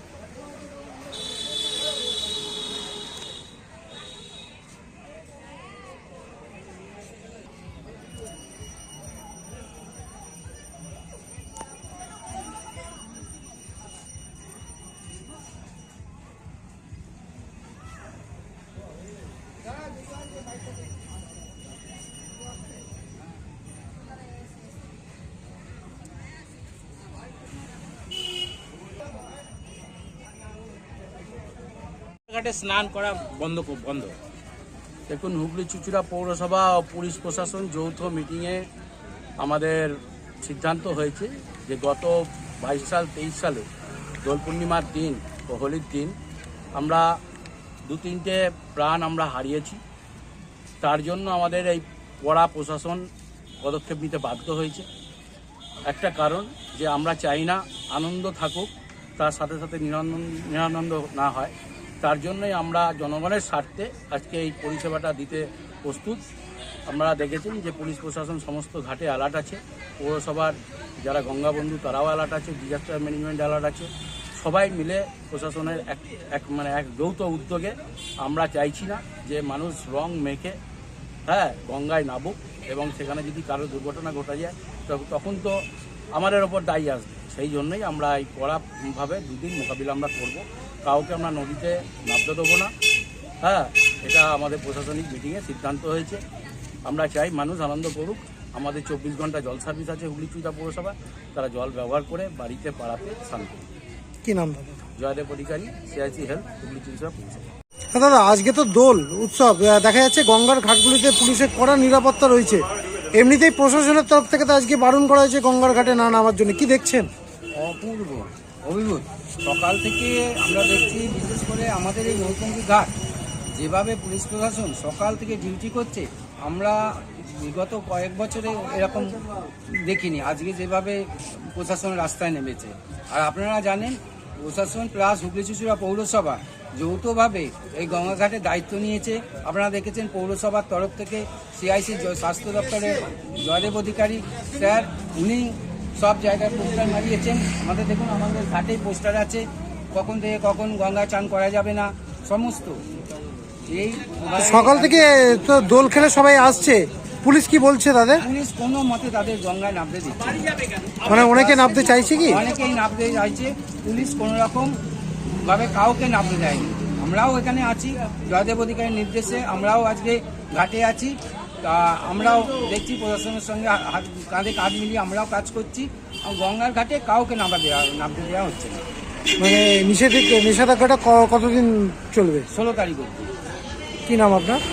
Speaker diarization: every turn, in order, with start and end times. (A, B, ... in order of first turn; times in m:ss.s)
0:33.6-0:34.1 A
0:35.1-0:38.6 B
0:39.4-0:43.6 B
0:44.2-0:46.1 B
0:46.8-0:47.1 B
0:47.9-0:49.8 B
0:50.8-0:53.0 B
0:53.6-0:54.9 B
0:55.9-1:06.2 B
1:06.9-1:20.6 B
1:21.3-1:25.6 B
1:26.2-1:32.7 B
1:33.4-1:36.2 B
1:36.9-1:43.6 B
1:44.2-1:44.8 C
1:45.0-1:47.5 B
1:47.9-1:57.1 C
1:57.6-2:02.9 A
2:03.5-2:32.8 A
2:33.7-2:35.3 A
2:34.4-2:38.2 C
2:38.2-2:41.5 A
2:41.0-2:42.4 C
2:42.3-2:44.8 A
2:45.4-2:58.8 A
2:59.4-3:02.5 C
3:02.5-3:03.3 A
3:04.1-3:04.6 C